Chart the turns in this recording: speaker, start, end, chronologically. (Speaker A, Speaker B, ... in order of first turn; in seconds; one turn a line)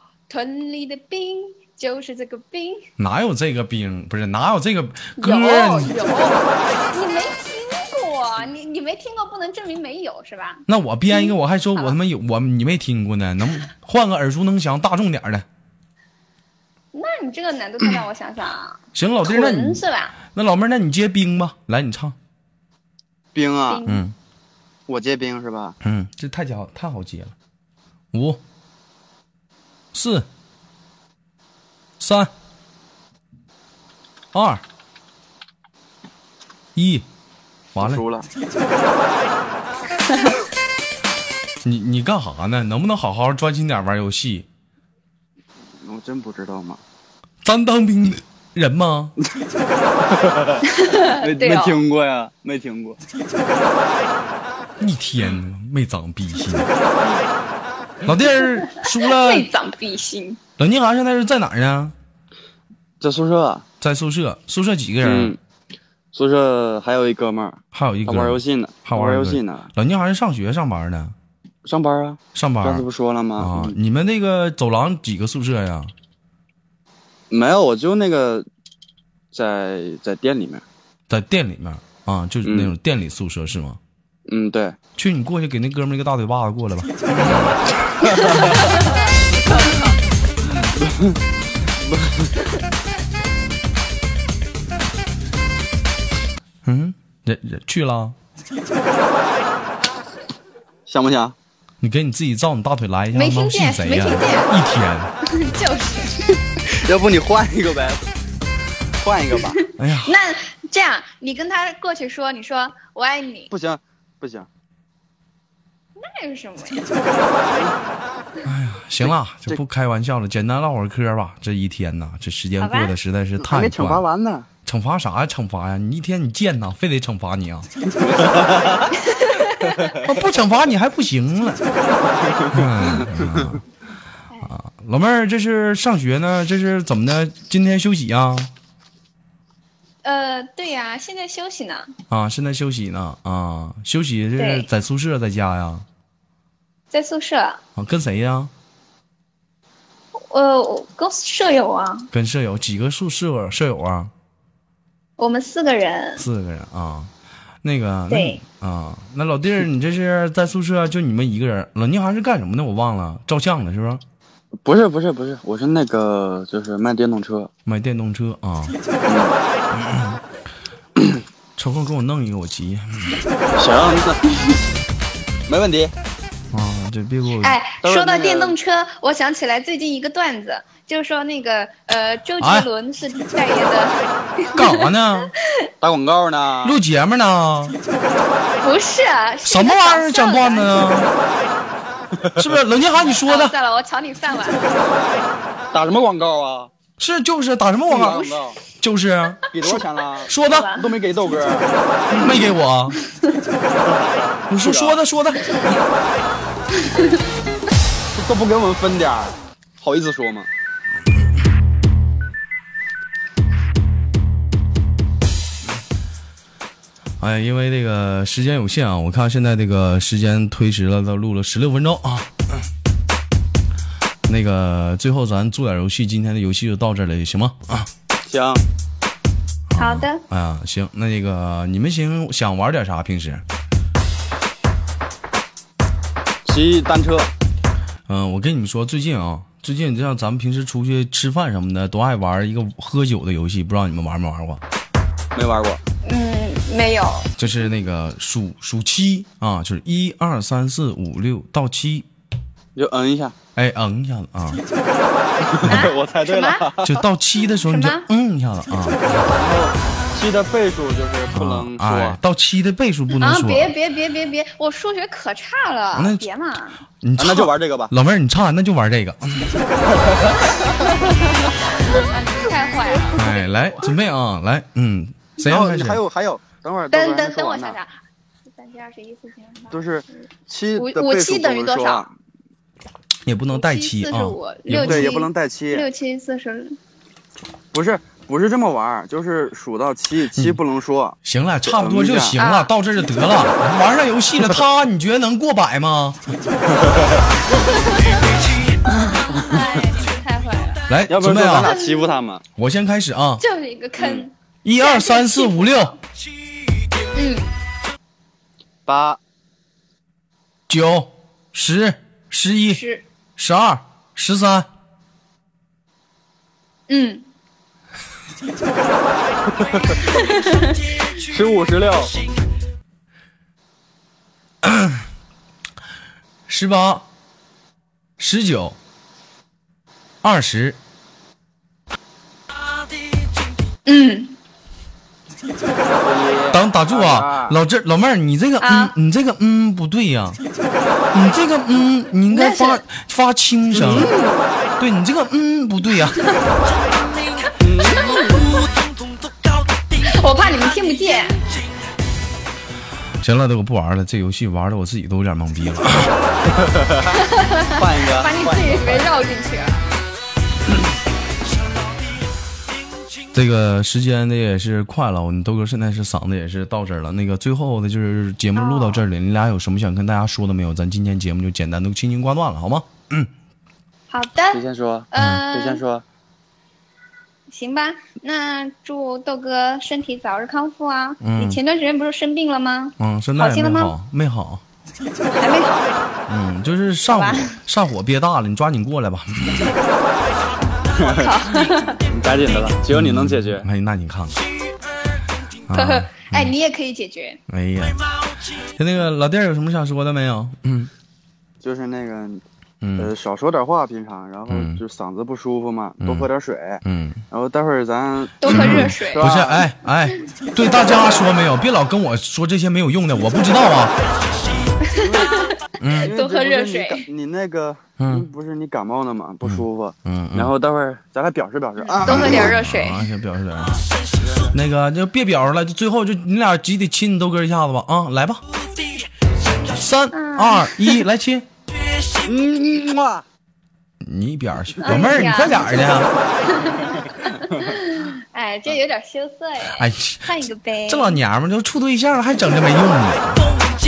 Speaker A: 0.3-2.9
Speaker B: 3.0-5.9
Speaker A: 5.2-12.0
Speaker B: 10.7-15.4
Speaker A: 16.9-20.1
Speaker B: 18.9-19.8
Speaker B: 20.3-22.1
Speaker C: 23.3-23.8
Speaker A: 23.7-24.0
Speaker B: 23.9-24.1
Speaker C: 24.9-25.7
Speaker B: 25.8-27.3
Speaker B: 28.1-28.4
Speaker B: 29.9-30.2
Speaker B: 32.0-32.3
Speaker B: 34.3-34.6
Speaker B: 36.8-37.0
Speaker B: 37.8-38.0
Speaker C: 37.8-38.3
Speaker B: 41.6-44.5
Speaker C: 45.8-46.8
Speaker B: 47.4-49.1
Speaker C: 50.1-53.0
Speaker A: 50.6-51.8
Speaker B: 54.8-56.7
Speaker B: 58.0-59.5
Speaker A: 58.7-60.4
Speaker B: 60.6-61.9
Speaker C: 63.0-63.6
Speaker B: 63.8-65.3
Speaker C: 65.0-65.4
Speaker C: 66.1-69.7
Speaker B: 67.7-71.1
Speaker C: 71.6-73.8
Speaker B: 72.3-72.8
Speaker B: 73.4-75.9
Speaker C: 77.3-78.5
Speaker C: 79.3-80.6
Speaker B: 81.1-83.8
Speaker C: 82.4-82.7
Speaker C: 84.3-84.8
Speaker B: 85.0-87.3
Speaker A: 88.1-88.9
Speaker A: 89.4-90.0
Speaker C: 90.8-91.2
Speaker C: 91.8-92.3
Speaker B: 96.6-98.1
Speaker C: 100.9-101.3
Speaker B: 101.8-105.1
Speaker A: 103.1-104.5
Speaker A: 105.2-106.3
Speaker C: 106.7-108.0
Speaker C: 109.0-109.6
Speaker B: 109.8-110.1
Speaker A: 110.0-113.5
Speaker C: 113.5-114.5
Speaker A: 116.0-116.9
Speaker C: 117.5-117.7
Speaker B: 118.4-124.0
Speaker C: 119.0-119.6
Speaker A: 122.6-122.9
Speaker C: 123.4-124.5
Speaker B: 124.6-127.7
Speaker C: 128.0-128.9
Speaker A: 129.1-129.9
Speaker C: 129.6-130.0
Speaker B: 129.9-131.6
Speaker C: 132.2-133.2
Speaker B: 132.5-133.6
Speaker B: 134.4-138.5
Speaker A: 140.0-141.9
Speaker B: 142.1-145.8
Speaker A: 144.4-144.7
Speaker A: 146.9-147.6
Speaker B: 147.8-148.5
Speaker A: 150.2-152.1
Speaker B: 152.1-154.1
Speaker A: 155.2-156.2
Speaker B: 156.2-157.1
Speaker B: 157.6-164.0
Speaker A: 158.1-158.4
Speaker C: 164.6-167.5
Speaker B: 167.7-168.8
Speaker C: 169.1-169.3
Speaker B: 169.7-170.2
Speaker B: 171.6-173.2
Speaker C: 173.6-174.2
Speaker C: 175.5-175.9
Speaker B: 176.5-177.6
Speaker A: 177.4-185.4
Speaker C: 177.8-178.6
Speaker B: 182.4-182.7
Speaker B: 184.6-185.3
Speaker C: 185.8-186.8
Speaker B: 186.6-187.8
Speaker A: 188.6-190.8
Speaker B: 189.5-191.1
Speaker B: 192.3-193.6
Speaker A: 193.1-194.8
Speaker C: 194.8-196.7
Speaker B: 197.0-199.5
Speaker C: 197.9-198.6
Speaker C: 199.5-202.4
Speaker B: 200.2-200.8
Speaker A: 200.5-200.8
Speaker B: 202.2-203.0
Speaker C: 203.8-205.0
Speaker B: 204.5-205.8
Speaker C: 208.1-210.5
Speaker B: 217.2-222.3
Speaker B: 224.3-227.9
Speaker C: 228.2-228.6
Speaker B: 229.7-233.4
Speaker A: 229.8-230.2
Speaker C: 236.4-237.3
Speaker B: 238.1-244.6
Speaker C: 245.3-245.8
Speaker A: 246.0-247.3
Speaker B: 247.4-252.1
Speaker C: 252.8-253.3
Speaker B: 253.5-254.6
Speaker C: 255.4-257.0
Speaker A: 255.6-256.6
Speaker B: 256.8-259.3
Speaker A: 257.6-258.1
Speaker C: 259.3-262.2
Speaker B: 261.3-263.7
Speaker A: 263.1-266.8
Speaker B: 265.9-266.2
Speaker B: 267.0-269.6
Speaker C: 267.2-267.9
Speaker C: 269.9-270.3
Speaker A: 270.6-273.9
Speaker B: 273.1-276.0
Speaker C: 275.4-277.8
Speaker A: 276.9-277.9
Speaker A: 278.4-279.8
Speaker C: 279.7-282.1
Speaker A: 280.8-282.1
Speaker B: 283.2-285.1
Speaker A: 283.5-286.8
Speaker C: 284.7-285.9
Speaker C: 287.7-292.4
Speaker B: 290.3-290.6
Speaker B: 291.2-296.2
Speaker A: 292.4-292.7
Speaker A: 297.6-298.2
Speaker A: 299.0-300.9
Speaker B: 300.9-301.7
Speaker C: 301.1-302.4
Speaker A: 301.6-302.2
Speaker B: 302.6-303.4
Speaker A: 303.4-306.0
Speaker C: 304.0-304.3
Speaker B: 304.6-305.9
Speaker A: 307.1-307.5
Speaker C: 308.9-309.2
Speaker B: 310.7-312.8
Speaker A: 312.7-313.0
Speaker B: 313.4-314.7
Speaker A: 316.9-317.3
Speaker A: 320.1-320.7
Speaker C: 321.1-322.1
Speaker B: 324.6-325.0
Speaker B: 326.5-327.1
Speaker B: 328.2-328.8
Speaker B: 330.2-330.8
Speaker A: 333.8-334.4
Speaker C: 335.8-337.6
Speaker B: 336.5-340.4
Speaker A: 338.6-338.9
Speaker B: 341.1-344.1
Speaker A: 342.3-342.8
Speaker C: 343.7-344.5
Speaker B: 344.8-346.2
Speaker C: 347.5-348.5
Speaker A: 349.9-351.4
Speaker B: 353.2-356.1
Speaker C: 356.6-357.1
Speaker A: 357.1-359.8
Speaker C: 357.7-359.1
Speaker B: 363.3-373.3
Speaker A: 368.5-369.0
Speaker A: 374.1-375.8
Speaker C: 374.5-376.0
Speaker B: 375.1-375.5
Speaker A: 377.5-383.9
Speaker B: 381.2-381.6
Speaker B: 383.0-384.6
Speaker A: 385.3-386.0
Speaker B: 386.3-389.7
Speaker A: 387.1-387.6
Speaker C: 390.9-391.5
Speaker A: 391.0-392.0
Speaker C: 392.1-393.6
Speaker B: 392.9-394.4
Speaker B: 395.7-396.5
Speaker A: 395.7-397.4
Speaker B: 397.5-398.0
Speaker B: 398.7-400.9
Speaker C: 401.6-402.4
Speaker B: 402.8-403.1
Speaker C: 403.0-409.7
Speaker B: 404.5-404.8
Speaker B: 406.0-406.3
Speaker B: 406.8-407.2
Speaker A: 408.4-409.3
Speaker B: 408.4-413.9
Speaker A: 414.8-417.1
Speaker C: 414.9-422.6
Speaker B: 415.8-416.1
Speaker B: 418.0-418.2
Speaker B: 419.4-420.5
Speaker A: 421.9-423.0
Speaker B: 422.0-423.8
Speaker C: 424.1-424.6
Speaker B: 424.5-428.4
Speaker B: 429.7-431.5
Speaker A: 430.1-430.7
Speaker C: 432.2-433.2
Speaker B: 434.0-436.1
Speaker A: 434.8-435.6
Speaker C: 434.9-435.3
Speaker A: 436.4-441.2
Speaker B: 439.8-440.3
Speaker B: 440.9-443.6